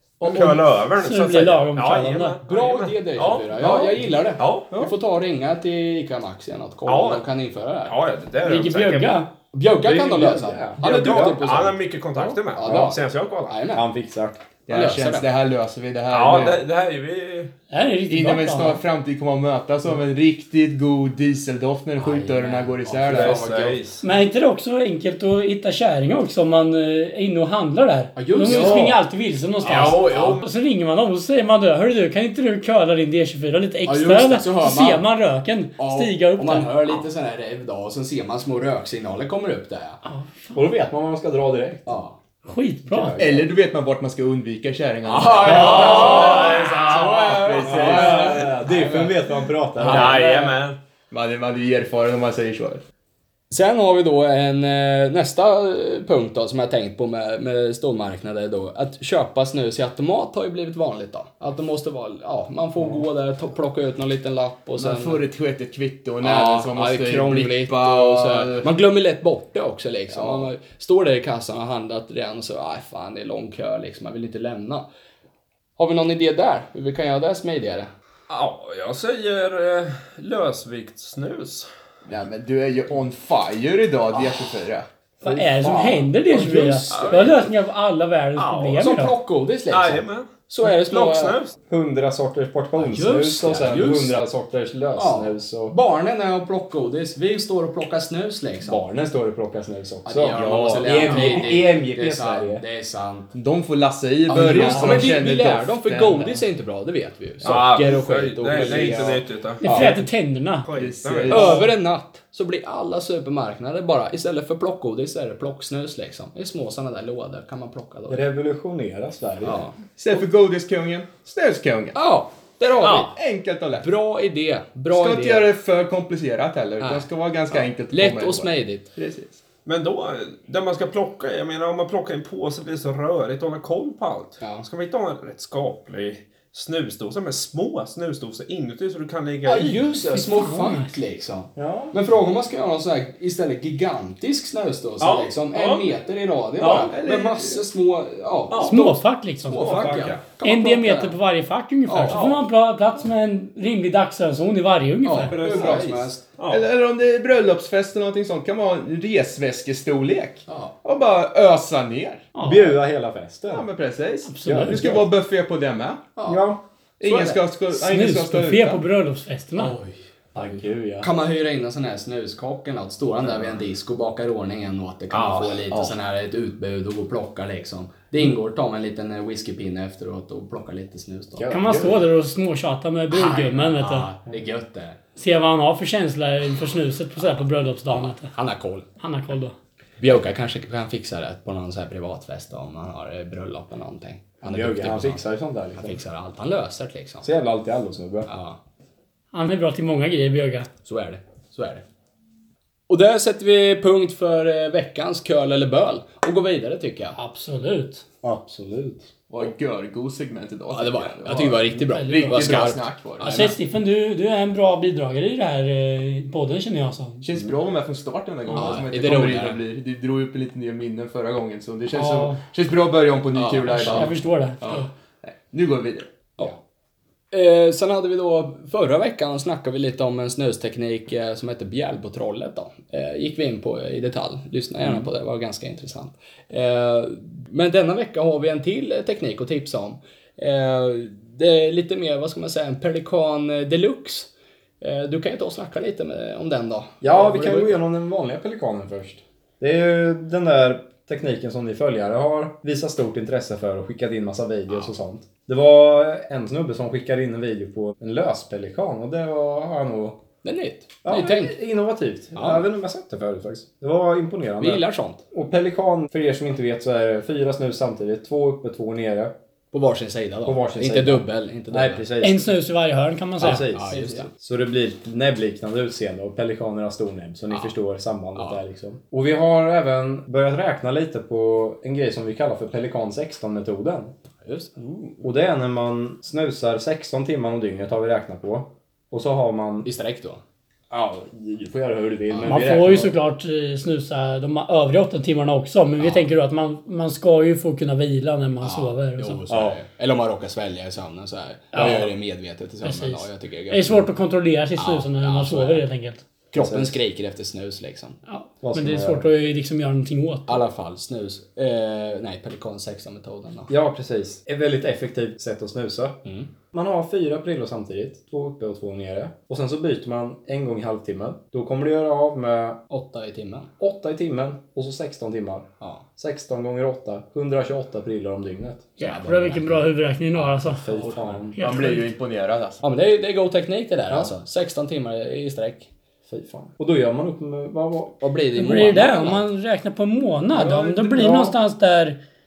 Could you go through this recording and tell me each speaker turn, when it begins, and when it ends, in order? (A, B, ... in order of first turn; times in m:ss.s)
0:00.2-0:04.7 A
0:00.3-0:02.4 B
0:02.4-0:08.0 C
0:03.6-0:04.1 D
0:06.8-0:07.2 A
0:07.8-0:09.2 A
0:08.4-0:09.3 B
0:09.5-0:11.8 C
0:09.8-0:11.3 E
0:10.8-0:13.6 A
0:12.5-0:13.9 C
0:13.7-0:14.4 E
0:14.7-0:16.6 D
0:14.7-0:15.3 C
0:16.1-0:17.5 A
0:17.7-0:18.8 B
0:18.1-0:23.6 D
0:22.0-0:23.8 C
0:23.1-0:24.0 A
0:24.0-0:37.0 B
0:28.2-0:29.0 C
0:28.4-0:28.8 D
0:29.6-0:30.4 C
0:29.6-0:30.4 A
0:33.8-0:35.0 C
0:35.8-0:40.0 C
0:40.0-0:40.6 B
0:40.5-0:42.0 E
0:41.8-0:42.2 C
0:42.4-0:43.2 B
0:42.9-0:43.5 E
0:43.2-0:48.5 D
0:45.0-0:50.4 C
0:45.3-0:47.5 A
0:47.6-0:50.3 E
0:49.8-0:50.8 A
0:49.9-0:50.4 D
0:51.1-0:52.8 D
0:53.5-1:05.2 C
1:04.8-1:08.7 D
1:06.2-1:14.9 C
1:10.1-1:10.5 D
1:15.8-1:17.9 C
1:18.3-1:21.7 A
1:22.0-1:24.8 D
1:25.2-1:29.1 B
1:25.2-1:25.8 E
1:25.6-1:27.3 C
1:26.9-1:27.5 A
1:28.4-1:28.8 A
1:28.8-1:31.4 C
1:29.7-1:31.5 A
1:31.7-1:35.8 E
1:32.8-1:34.2 C
1:34.9-1:38.8 C
1:38.6-1:42.6 E
1:40.0-1:43.3 C
1:40.3-1:41.5 D
1:43.3-1:46.4 D
1:44.3-1:50.0 C
1:47.4-1:50.0 A
1:48.5-1:49.1 D
1:49.6-1:50.7 B
1:50.6-1:51.6 A
1:50.8-1:51.7 D
1:51.3-1:58.2 C
1:58.1-1:59.6 E
1:59.4-1:59.8 C
2:00.0-2:02.0 D
2:01.9-2:03.1 C
2:02.8-2:03.9 D
2:03.8-2:05.5 C
2:04.9-2:09.4 D
2:06.8-2:08.9 C
2:09.6-2:19.9 A
2:14.4-2:14.6 C
2:19.4-2:31.2 C
2:20.1-2:20.9 B
2:21.6-2:21.9 E
2:25.0-2:25.9 A
2:26.6-2:27.0 A
2:26.9-2:27.6 D
2:28.5-2:28.9 A
2:28.6-2:35.4 B
2:29.5-2:30.2 A
2:31.9-2:32.4 C
2:32.1-2:32.4 A
2:35.0-2:36.3 C
2:35.3-2:36.7 A
2:35.4-2:42.2 D
2:40.5-2:40.7 C
2:42.3-2:42.8 B
2:42.4-2:43.7 E
2:43.5-2:46.0 D
2:44.2-2:44.9 B
2:44.4-2:45.1 E
2:46.2-2:46.5 C
2:46.2-2:46.6 E
2:47.0-2:48.8 D
2:47.0-2:47.4 C
2:47.7-2:49.7 B
2:49.6-3:01.5 C
2:50.3-2:51.1 E
2:55.1-2:55.6 A
2:55.7-2:56.0 D
3:01.4-3:02.0 E
3:01.5-3:04.1 B
3:03.1-3:05.0 C
3:05.2-3:08.3 B
3:07.9-3:08.8 C
3:09.0-3:09.5 B
3:10.0-3:15.2 C
3:14.4-3:16.0 E
3:15.7-3:17.3 C
3:17.2-3:18.3 E
3:18.3-3:18.6 C
3:19.3-3:20.7 B
3:20.8-3:21.8 C
3:22.9-3:27.2 C
3:27.2-3:28.0 B
3:28.2-3:29.1 E
3:29.3-3:33.3 D
3:30.7-3:33.6 C
3:31.8-3:32.6 B
3:33.2-3:37.2 B
3:37.2-3:44.1 D
3:38.5-3:39.6 C
3:41.9-3:42.4 B
3:43.3-3:44.8 C
3:43.7-3:44.9 B
3:44.6-3:46.1 D
3:47.3-4:04.3 C
4:04.8-4:07.8 C
4:07.0-4:20.2 E
4:20.4-4:21.6 C
4:21.0-4:29.3 E
4:22.3-4:22.6 C
4:24.6-4:25.2 C
4:29.7-4:32.0 C
4:30.4-4:32.4 E
4:32.2-4:33.6 B
4:33.4-4:44.1 E
4:33.4-4:34.3 C
4:38.4-4:38.6 C
4:44.4-4:44.7 C
4:45.2-4:49.9 E
4:49.8-4:50.4 C
4:50.9-4:53.2 E
4:52.3-4:52.8 C
4:52.4-4:59.4 B
4:56.0-4:56.3 C
4:58.6-5:04.1 C
4:59.5-4:59.8 E
5:01.7-5:02.1 B
5:02.8-5:06.2 B
5:04.8-5:05.8 C
5:06.5-5:08.2 C
5:06.5-5:07.0 E
5:08.3-5:10.6 B
5:08.6-5:09.3 E
5:10.5-5:13.7 C
5:13.7-5:16.2 E
5:16.7-5:22.8 E
5:22.9-5:23.7 C
5:23.8-5:28.9 E
5:29.0-5:30.9 B
5:29.0-5:31.5 C
5:30.8-5:31.6 E
5:31.6-5:32.1 B
5:31.6-5:32.8 D
5:32.8-5:35.9 C
5:36.3-5:38.2 E
5:38.2-5:39.5 C
5:38.6-5:42.2 B
5:40.5-5:41.5 E